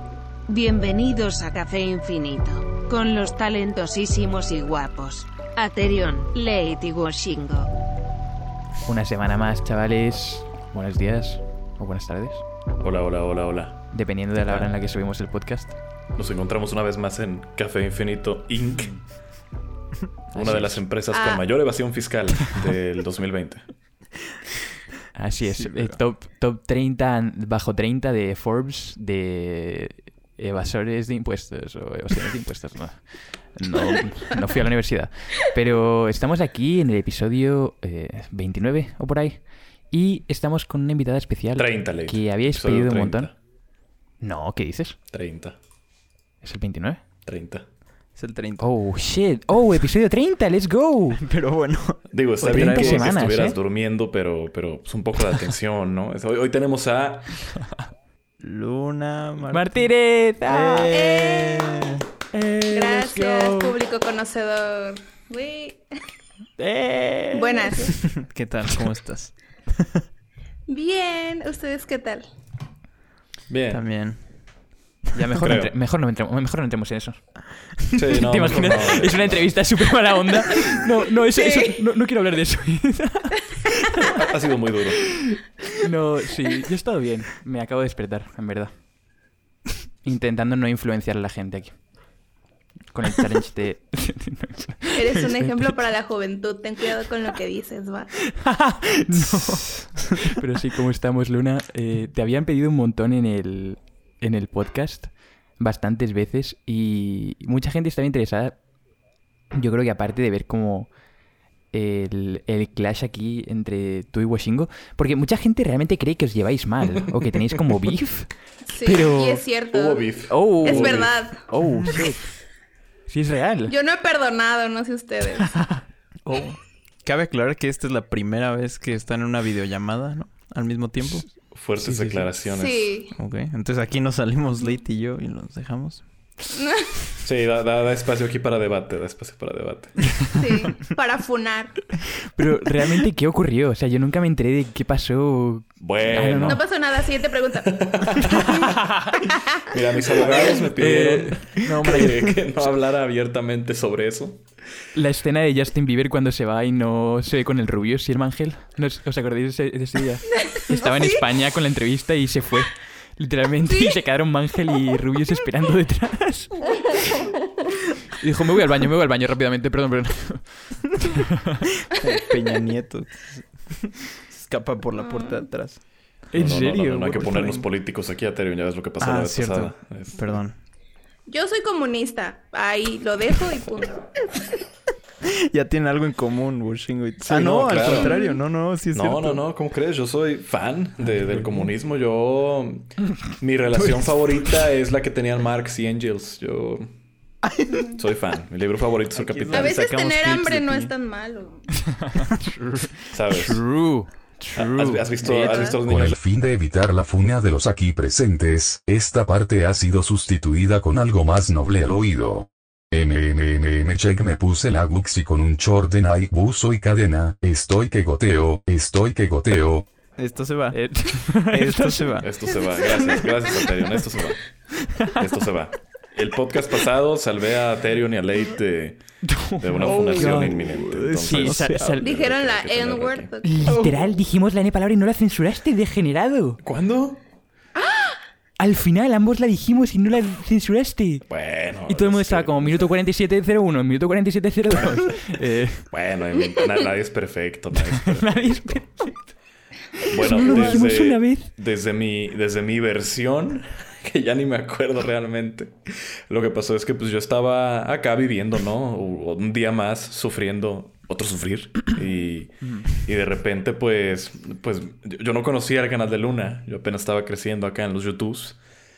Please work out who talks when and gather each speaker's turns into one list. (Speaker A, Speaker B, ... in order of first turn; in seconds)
Speaker A: 0.5-7.7
Speaker B: 8.9-12.4, 13.9-15.8, 20.4-20.8, 25.1-43.3, 44.2-45.0, 46.4-47.0, 48.6-51.2, 52.5-53.6, 59.5-60.9, 62.3-63.8, 66.6-67.9, 75.1-77.3, 78.1-84.1, 85.3-88.7, 90.0-91.8, 92.9-95.8, 98.3-108.6, 109.5-110.9, 111.7-118.3, 118.8-119.4, 120.3-122.3, 123.1-123.7, 125.4-125.8, 131.8-132.3, 142.3-146.6, 148.2-149.2, 150.6-152.4, 154.9-167.2, 168.2-171.7, 176.3-177.7, 201.9-205.8, 220.7-222.3, 224.8-225.2, 229.2-230.7, 231.2-232.1, 233.4-236.6, 238.6-241.2, 241.9-245.9, 248.0-249.2, 250.2-251.5, 262.6-262.9
Speaker C: 12.8-14.7, 16.1-18.9, 20.3-23.7, 41.6-43.3, 45.1-45.6, 47.2-47.7, 52.1-57.4, 73.5-73.8, 75.4-75.7, 78.0-79.5, 84.0-85.2, 119.7-121.1, 131.5-133.0, 137.2-140.4, 145.8-146.6, 147.7-148.8, 149.6-154.4, 176.3-180.3, 187.2-188.2, 188.9-196.9, 198.0-199.8, 203.1-203.6, 204.6-206.2, 222.2-224.4, 225.2-229.0, 229.6-233.3, 236.6-237.2, 241.3-242.9, 245.9-248.9, 250.1-255.8, 256.3-268.6
Speaker D: 21.1-21.5, 60.9-62.0, 62.7-65.8, 67.3-68.0, 70.7-72.2, 81.3-81.8, 94.9-98.1, 118.7-121.4, 123.7-125.5, 132.6-133.1, 136.5-136.9, 140.4-141.9, 146.5-147.8, 160.3-161.2, 175.0-175.5, 181.3-184.2, 187.8-188.4, 197.7-198.0, 199.5-201.7, 232.0-233.6, 237.8-238.2
Speaker E: 25.5-26.0, 48.2-48.7, 51.2-53.3, 58.4-59.8, 60.5-62.0, 68.0-70.0, 73.7-74.2, 126.3-131.4, 133.1-136.1, 171.9-175.8, 179.0-180.6, 185.2-189.4, 197.4-197.9, 199.2-200.9, 220.2-222.3, 229.8-232.0, 233.6-234.1
Speaker F: 205.8-219.9